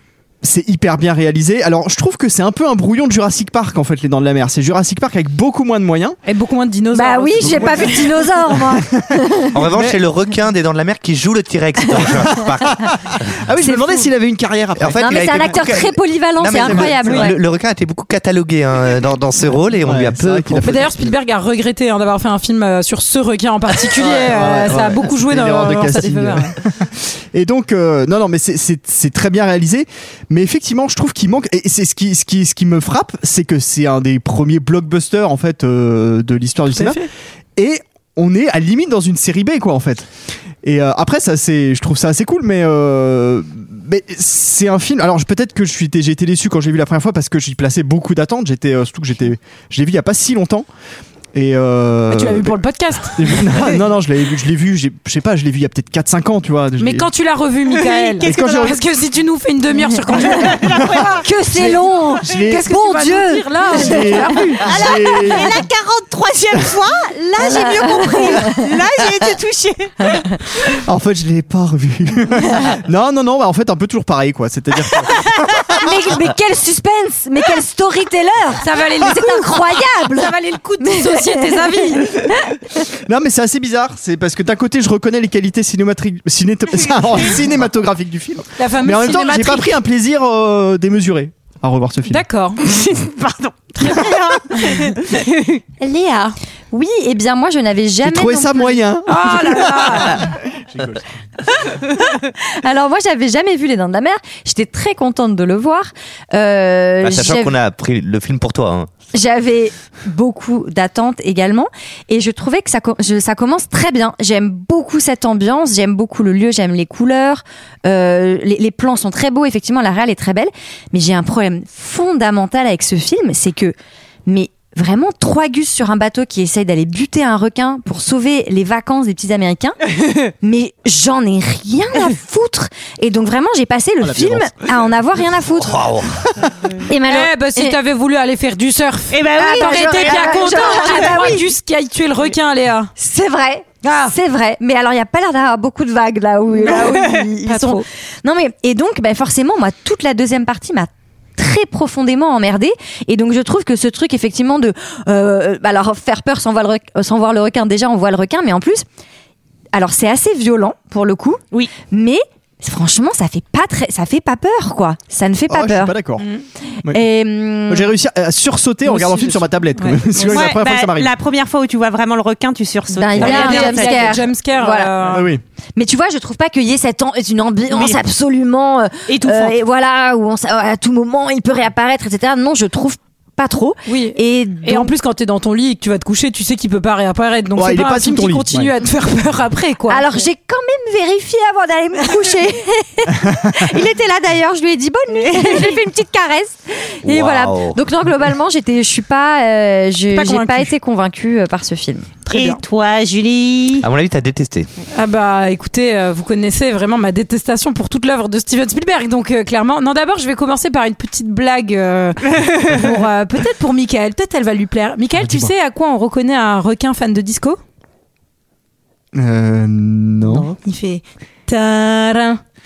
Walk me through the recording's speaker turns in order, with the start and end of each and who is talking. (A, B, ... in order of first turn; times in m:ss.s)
0:00.4-0:06.2 A
0:06.3-0:08.1 B
0:06.9-0:09.6 C
0:07.4-0:07.8 A
0:09.6-0:12.8 D
0:09.7-0:10.0 A
0:12.0-0:12.4 C
0:12.7-0:15.6 A
0:13.6-0:14.1 C
0:14.8-0:20.8 D
0:15.0-0:17.4 C
0:16.6-0:17.3 A
0:19.8-0:21.0 A
0:20.6-0:26.6 B
0:24.0-0:37.0 A
0:36.7-0:37.1 B
0:37.6-0:40.1 A
0:40.6-0:50.7 A
0:51.3-0:52.5 A
0:52.1-0:53.8 B
0:53.2-0:57.1 A
0:56.8-1:00.6 B
0:57.7-0:58.8 E
0:58.2-0:58.8 A
1:00.2-1:01.2 E
1:01.2-1:04.8 C
1:01.5-1:02.6 A
1:02.5-1:04.7 B
1:03.8-1:05.6 A
1:04.7-1:10.2 E
1:07.4-1:08.7 C
1:10.8-1:15.1 A
1:15.7-1:22.4 C
1:18.6-1:22.2 B
1:23.0-1:32.2 A
1:28.6-1:29.8 B
1:32.1-1:32.6 B
1:32.6-1:35.6 E
1:33.8-1:34.8 B
1:35.8-1:38.8 C
1:38.0-1:41.0 A
1:39.1-1:40.2 B
1:42.4-1:47.6 C
1:47.0-1:48.9 D
1:49.1-2:03.8 C
2:04.3-2:09.8 C
2:10.4-2:15.8 C
2:14.0-2:14.5 A
2:15.6-2:16.2 D
2:16.9-2:17.8 C
2:17.1-2:22.9 B
2:19.1-2:21.2 E
2:19.4-2:21.5 C
2:23.0-2:38.8 C
2:23.8-2:24.1 B
2:26.6-2:27.8 B
2:39.7-2:46.0 C
2:45.5-2:46.3 A
2:46.9-2:47.9 C
2:47.6-2:51.1 A
2:48.9-2:50.5 B
2:50.3-2:54.1 E
2:52.9-2:54.9 C
2:53.2-2:55.3 B
2:55.0-2:55.4 A
2:55.8-3:04.9 C
2:59.1-2:59.4 E
3:03.9-3:10.0 B
3:07.6-3:08.7 A
3:09.9-3:22.1 C
3:15.2-3:15.8 E
3:17.0-3:17.8 D
3:20.1-3:20.7 B
3:22.3-3:22.6 B
3:22.3-3:23.9 E
3:23.8-3:24.7 D
3:24.9-3:37.6 B
3:32.4-3:32.8 E
3:35.2-3:35.5 A
3:39.1-3:40.5 A
3:40.4-3:42.4 B